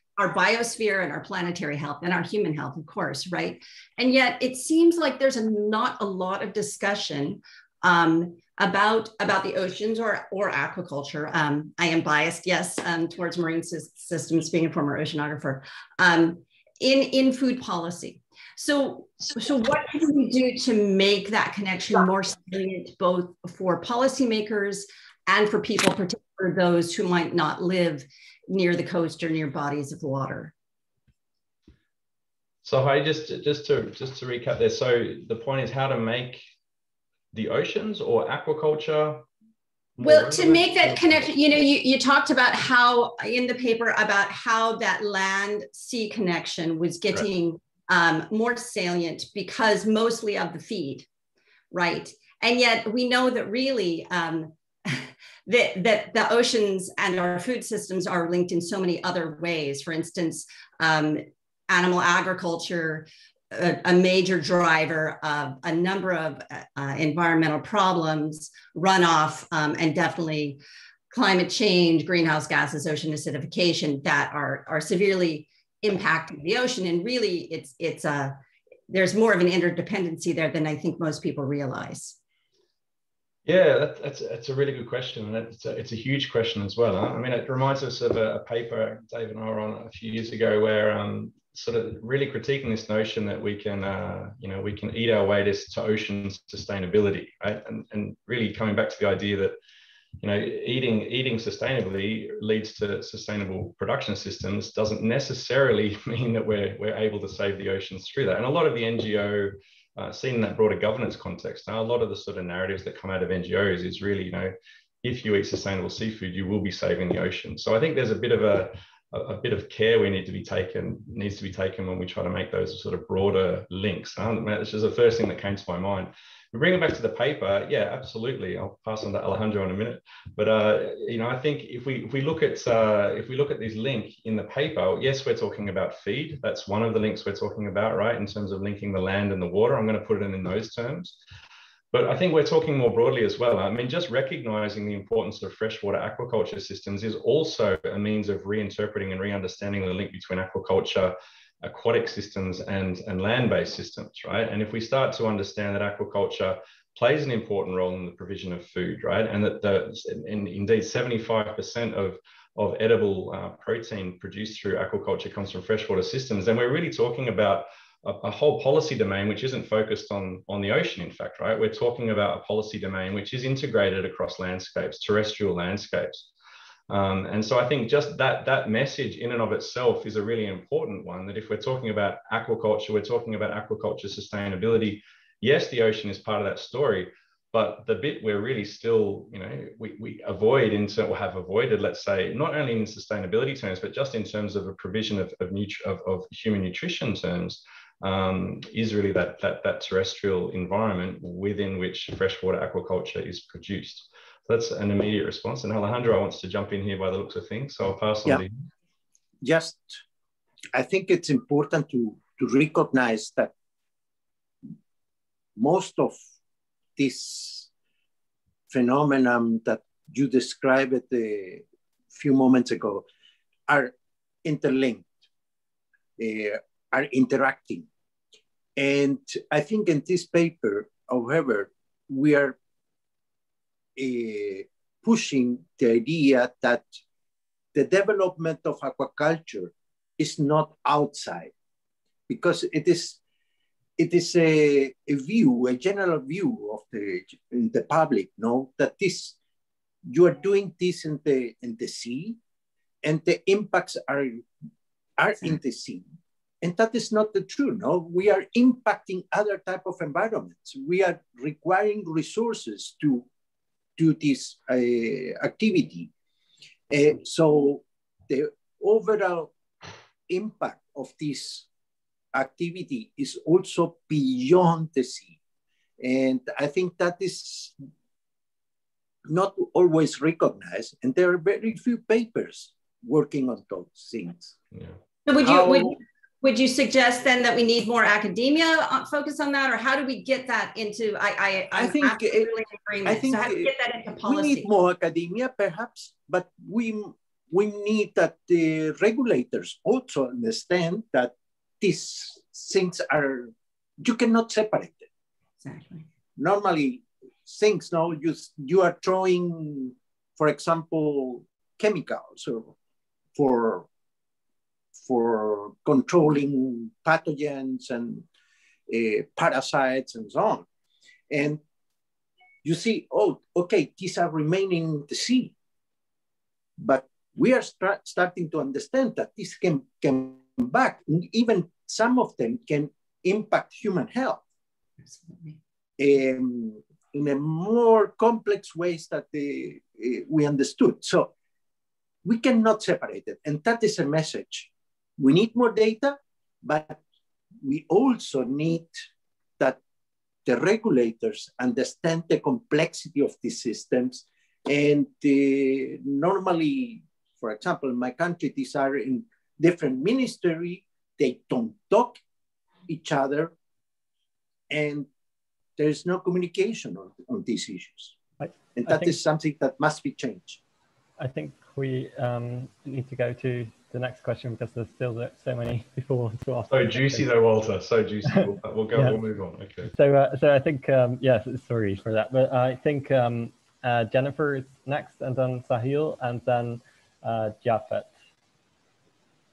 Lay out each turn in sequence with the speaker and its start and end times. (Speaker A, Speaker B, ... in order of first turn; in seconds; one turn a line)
Speaker A: 0.2-30.5
Speaker B: 32.6-36.4
Speaker B: 37.3-39.3
Speaker B: 40.0-41.4
Speaker A: 40.0-51.1
Speaker A: 51.7-70.6
Speaker A: 71.1-82.2
Speaker B: 83.5-99.6
Speaker B: 100.2-141.2
Speaker B: 141.9-176.3
Speaker B: 176.9-208.6
Speaker C: 209.4-210.0
Speaker C: 210.7-213.5
Speaker C: 215.6-216.2
Speaker C: 217.0-217.7
Speaker C: 218.7-223.1
Speaker C: 223.7-223.9
Speaker C: 224.4-225.1
Speaker C: 226.2-227.9
Speaker C: 228.8-232.6
Speaker C: 234.0-236.9
Speaker C: 237.7-241.5
Speaker C: 242.3-243.2
Speaker C: 244.0-249.4
Speaker C: 250.1-252.4
Speaker C: 253.0-254.5
Speaker C: 255.2-256.1
Speaker C: 256.6-263.3
Speaker C: 264.0-266.1
Speaker C: 266.9-269.5
Speaker C: 270.3-271.7
Speaker C: 272.3-275.4
Speaker C: 276.0-277.8
Speaker C: 279.3-284.6
Speaker A: 285.3-294.7
Speaker C: 285.4-286.0
Speaker C: 291.7-292.5
Speaker C: 293.1-293.7
Speaker C: 294.3-305.1
Speaker A: 305.6-306.1
Speaker C: 306.4-312.8
Speaker C: 313.4-313.9
Speaker C: 315.0-318.2
Speaker C: 318.9-320.7
Speaker C: 321.3-321.6
Speaker C: 322.6-325.5
Speaker C: 326.8-334.4
Speaker A: 335.0-335.6
Speaker C: 336.0-341.3
Speaker C: 342.2-347.0
Speaker C: 347.6-349.0
Speaker C: 350.5-362.2
Speaker C: 362.9-363.5
Speaker C: 364.7-365.1
Speaker C: 365.8-368.1
Speaker D: 368.4-369.2
Speaker C: 368.8-370.6
Speaker D: 371.2-377.3
Speaker B: 376.7-379.9
Speaker D: 378.9-379.2
Speaker D: 379.9-388.1